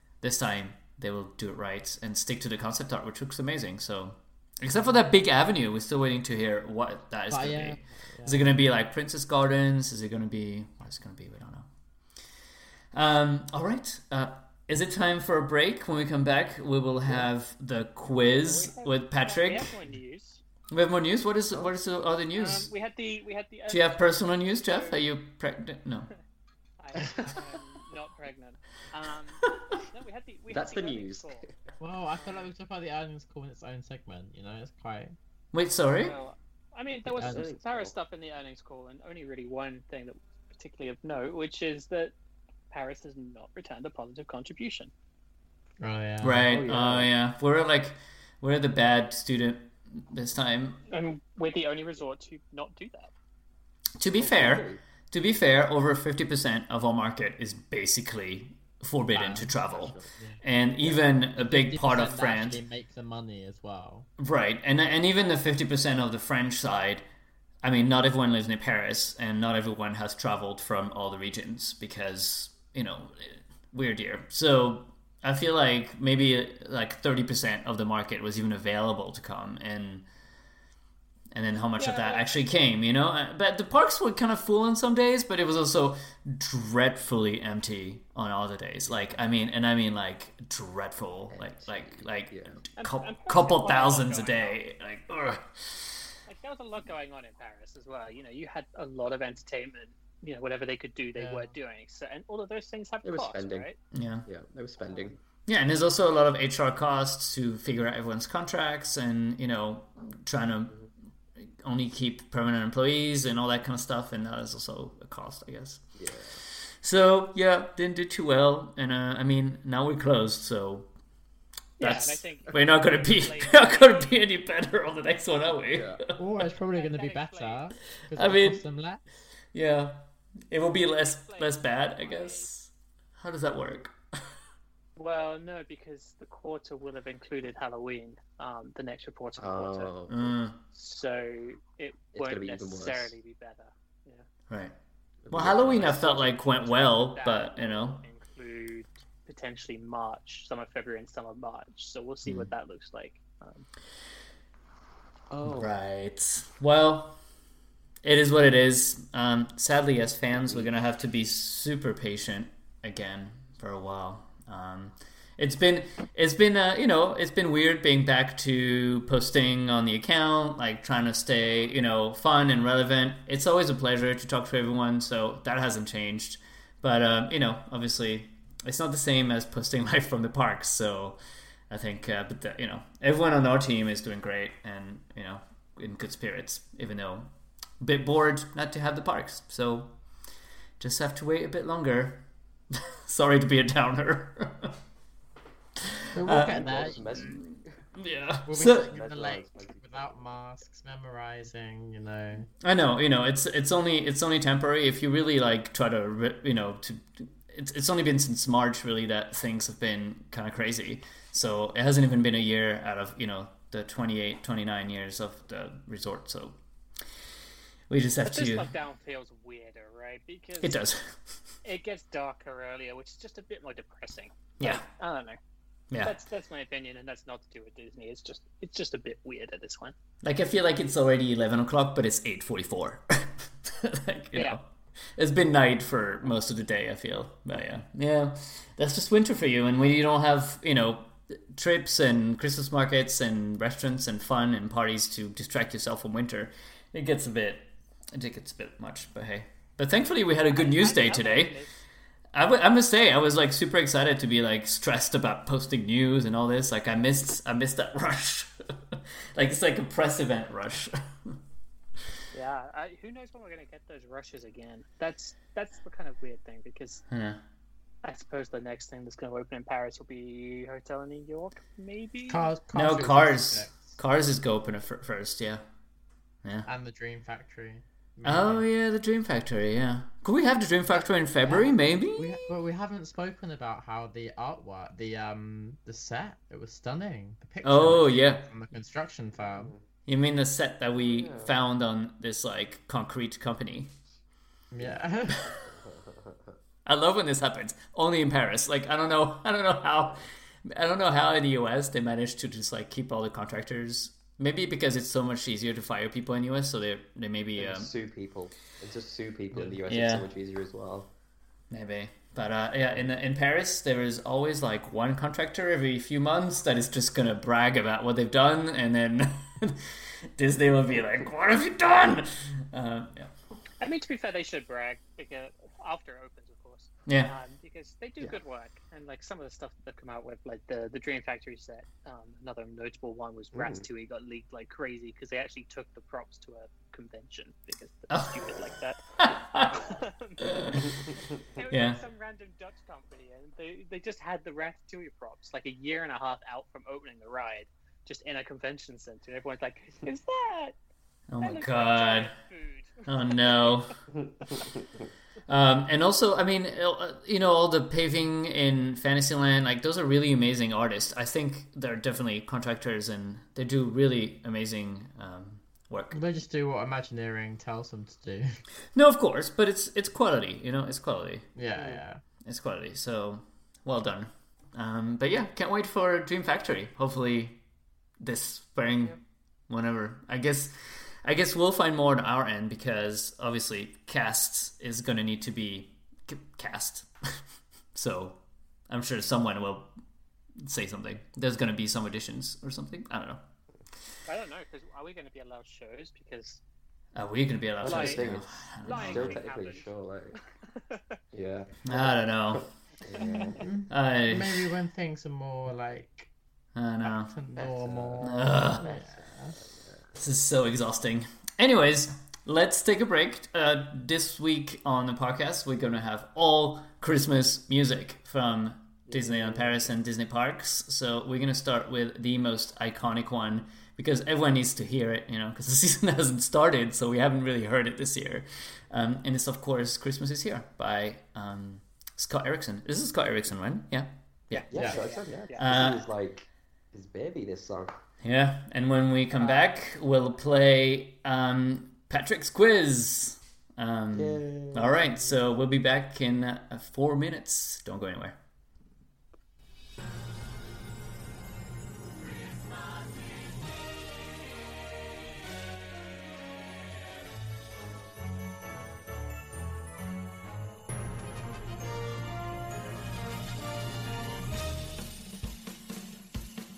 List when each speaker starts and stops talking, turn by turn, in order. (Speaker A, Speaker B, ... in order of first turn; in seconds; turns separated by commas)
Speaker A: 0.2-11.7, Speaker B: 7.3-8.5, Speaker A: 12.9-19.7, Speaker C: 18.4-20.4, Speaker A: 20.7-22.7, Speaker C: 22.3-25.0, Speaker A: 23.7-26.1, Speaker C: 26.8-31.4, Speaker D: 30.5-31.6, Speaker B: 31.8-35.1, Speaker A: 35.5-36.2, Speaker C: 36.0-42.1, Speaker D: 37.0-37.9, Speaker B: 37.2-37.4, Speaker C: 42.7-44.9, Speaker B: 45.8-46.5, Speaker A: 46.2-50.8, Speaker D: 46.5-47.1, Speaker C: 50.9-53.1, Speaker A: 54.0-62.6, Speaker D: 54.2-54.8, Speaker B: 59.1-59.5, Speaker D: 59.7-60.1, Speaker B: 61.3-64.1, Speaker A: 64.2-67.0, Speaker A: 67.6-80.0, Speaker A: 81.3-96.0, Speaker C: 81.8-82.4, Speaker D: 91.3-92.6, Speaker C: 92.8-94.6, Speaker C: 96.2-103.8, Speaker B: 101.2-101.5, Speaker D: 103.0-103.7, Speaker A: 103.9-104.2, Speaker D: 104.2-105.2, Speaker C: 104.8-105.2, Speaker A: 105.5-110.8, Speaker A: 111.4-115.9, Speaker D: 116.0-116.4, Speaker A: 116.8-120.9, Speaker C: 121.8-124.1, Speaker A: 121.8-126.0, Speaker D: 125.7-126.0, Speaker B: 126.2-129.0, Speaker C: 126.7-127.7, Speaker A: 128.1-128.6, Speaker A: 129.5-133.9, Speaker C: 131.2-132.5, Speaker C: 134.9-139.9, Speaker D: 139.4-140.4, Speaker A: 140.1-140.6, Speaker C: 140.7-144.2, Speaker D: 142.1-143.1, Speaker A: 144.5-144.7, Speaker D: 145.2-146.3, Speaker A: 145.3-148.0, Speaker C: 145.8-153.6, Speaker D: 155.3-155.7, Speaker A: 155.4-157.2, Speaker A: 158.0-181.2, Speaker D: 160.3-160.7, Speaker A: 181.7-187.3, Speaker A: 187.8-189.9, Speaker A: 190.8-194.7, Speaker B: 196.1-197.0, Speaker A: 196.2-198.9, Speaker D: 196.3-197.6, Speaker B: 198.5-202.5, Speaker D: 198.7-200.2, Speaker A: 202.6-216.6, Speaker A: 217.9-218.7, Speaker C: 218.2-220.8, Speaker A: 220.6-221.1, Speaker C: 221.6-225.4, Speaker A: 224.6-224.8, Speaker A: 225.9-226.2, Speaker C: 226.0-229.9, Speaker A: 230.2-234.6, Speaker A: 235.2-251.6, Speaker C: 250.5-251.7, Speaker A: 252.3-261.4, Speaker C: 262.3-267.0, Speaker A: 267.1-267.4, Speaker C: 268.0-272.5, Speaker B: 272.3-273.9, Speaker A: 272.7-275.6, Speaker B: 276.6-278.6, Speaker A: 278.2-282.4, Speaker B: 281.4-289.7, Speaker A: 287.6-288.4, Speaker D: 289.4-289.8, Speaker A: 290.1-293.9, Speaker D: 291.0-291.5, Speaker B: 294.7-295.4, Speaker D: 294.8-296.5, Speaker A: 296.9-307.9, Speaker D: 307.6-311.1, Speaker A: 309.9-310.3, Speaker A: 311.7-319.8, Speaker A: 320.4-323.3, Speaker C: 323.8-340.9, Speaker A: 327.1-327.3, Speaker D: 333.5-333.9, Speaker A: 338.1-338.5, Speaker A: 339.2-339.8, Speaker A: 340.4-340.9, Speaker C: 341.5-350.8, Speaker A: 341.7-342.0, Speaker A: 351.3-352.3, Speaker C: 351.4-353.8, Speaker A: 353.1-353.9, Speaker D: 354.1-355.1, Speaker A: 355.5-366.2, Speaker B: 366.1-368.5, Speaker A: 368.9-371.5, Speaker B: 371.6-372.2, Speaker A: 372.4-377.6, Speaker A: 378.2-379.2, Speaker A: 379.7-387.1, Speaker A: 387.9-389.9, Speaker A: 390.6-393.4, Speaker C: 394.3-396.6, Speaker A: 397.1-399.4, Speaker D: 397.8-400.4, Speaker C: 397.8-398.2, Speaker C: 398.9-399.8, Speaker C: 400.7-401.2, Speaker D: 401.3-403.6, Speaker A: 401.8-402.7, Speaker C: 403.1-403.6, Speaker B: 403.6-406.3, Speaker A: 403.9-404.6, Speaker A: 406.7-407.3, Speaker B: 407.0-409.6, Speaker D: 407.5-410.1, Speaker A: 408.2-408.9, Speaker A: 410.1-434.7, Speaker D: 419.1-419.9, Speaker C: 434.5-435.7, Speaker D: 434.7-438.0, Speaker A: 435.6-436.1, Speaker A: 438.2-448.4, Speaker D: 444.1-445.4